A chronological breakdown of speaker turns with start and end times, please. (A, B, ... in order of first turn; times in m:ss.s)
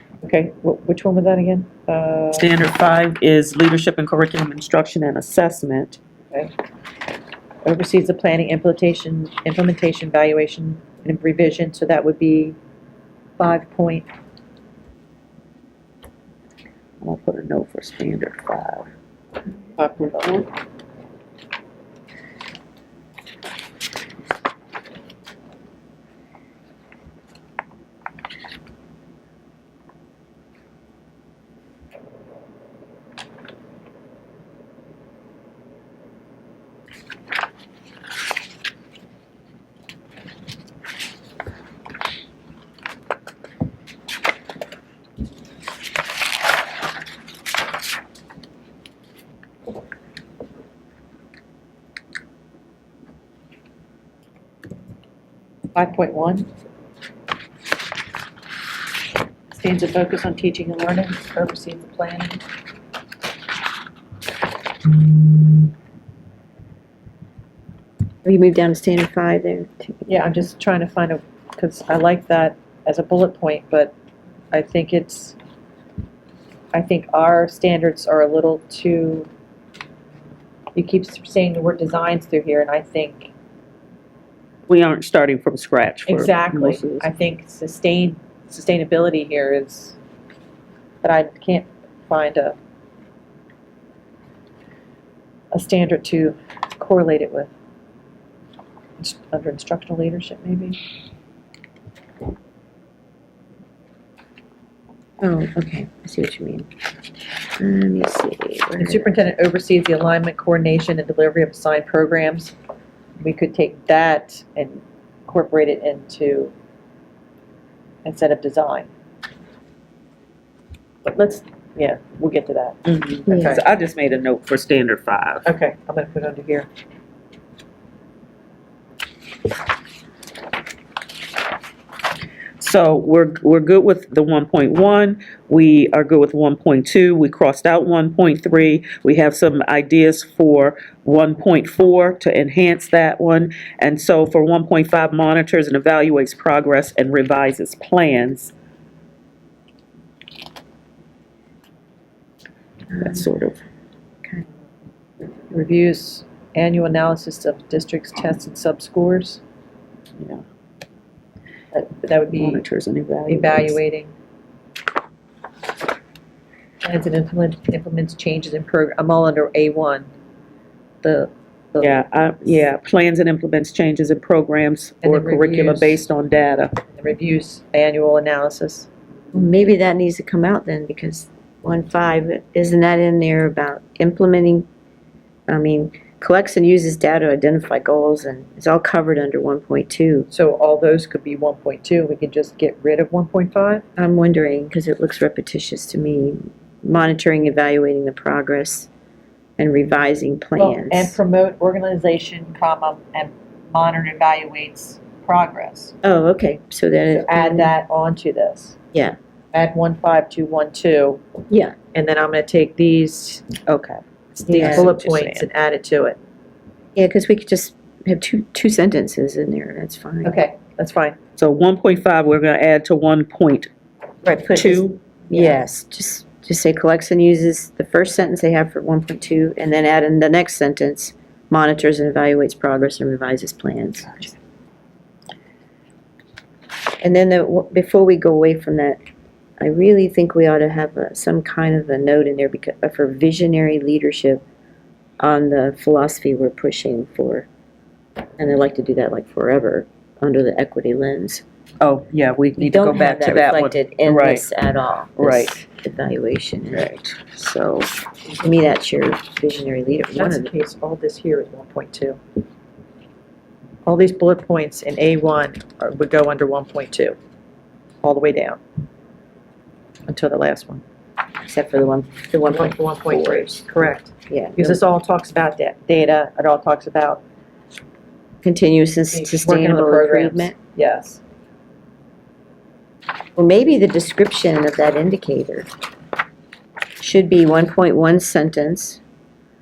0:00.2-0:02.5 A
0:02.3-0:06.0 B
0:07.6-0:12.6 A
0:13.4-0:14.1 A
0:17.0-0:18.9 B
0:19.8-0:20.5 A
0:55.7-0:56.5 A
0:59.5-1:02.4 A
1:08.2-1:10.1 C
1:10.1-1:13.9 A
1:14.5-1:15.4 A
1:16.7-1:19.3 A
1:20.7-1:23.3 A
1:24.7-1:27.1 B
1:26.1-1:30.0 A
1:31.0-1:32.6 A
1:35.5-1:37.5 A
1:39.0-1:40.8 A
1:45.2-1:46.7 C
1:47.6-1:49.2 C
1:48.8-1:52.5 A
1:53.2-1:56.5 A
1:58.0-1:58.9 A
2:01.0-2:03.6 A
2:02.8-2:05.4 B
2:03.3-2:03.6 C
2:05.4-2:06.7 A
2:12.6-2:28.5 B
2:32.9-2:33.6 B
2:35.5-2:39.4 A
2:40.2-2:40.4 B
2:41.7-2:42.6 A
2:42.3-2:43.8 B
2:43.3-2:44.1 A
2:46.8-2:50.1 A
2:51.0-2:52.0 A
2:51.8-2:56.8 B
2:55.0-2:56.0 A
2:56.9-2:58.9 A
2:59.3-3:04.7 C
3:05.5-3:10.3 C
3:10.3-3:13.8 A
3:14.0-3:18.9 C
3:19.6-3:21.2 C
3:20.6-3:25.9 A
3:26.0-3:27.7 C
3:27.1-3:28.8 A
3:29.5-3:31.2 A
3:31.5-3:31.8 C
3:31.9-3:33.5 A
3:33.6-3:35.5 B
3:34.5-3:36.2 A
3:34.6-3:34.9 C
3:37.0-3:40.4 C
3:40.2-3:41.2 A
3:41.4-3:43.7 B
3:44.2-3:54.2 C
3:44.5-3:45.0 B
3:45.3-3:45.6 A
3:57.0-3:59.0 C
3:59.6-4:04.4 C
4:05.2-4:07.5 C
4:08.4-4:11.4 C
4:11.8-4:14.5 B
4:12.6-4:20.5 C
4:15.2-4:15.6 B
4:16.7-4:17.8 B
4:20.2-4:22.2 A
4:23.8-4:27.2 A
4:28.0-4:28.6 A
4:30.1-4:30.8 A
4:31.4-4:33.6 C
4:32.5-4:37.2 A
4:34.3-4:34.8 C
4:38.4-4:40.6 C
4:39.1-4:41.2 A
4:43.3-4:45.7 C
4:47.0-4:49.0 C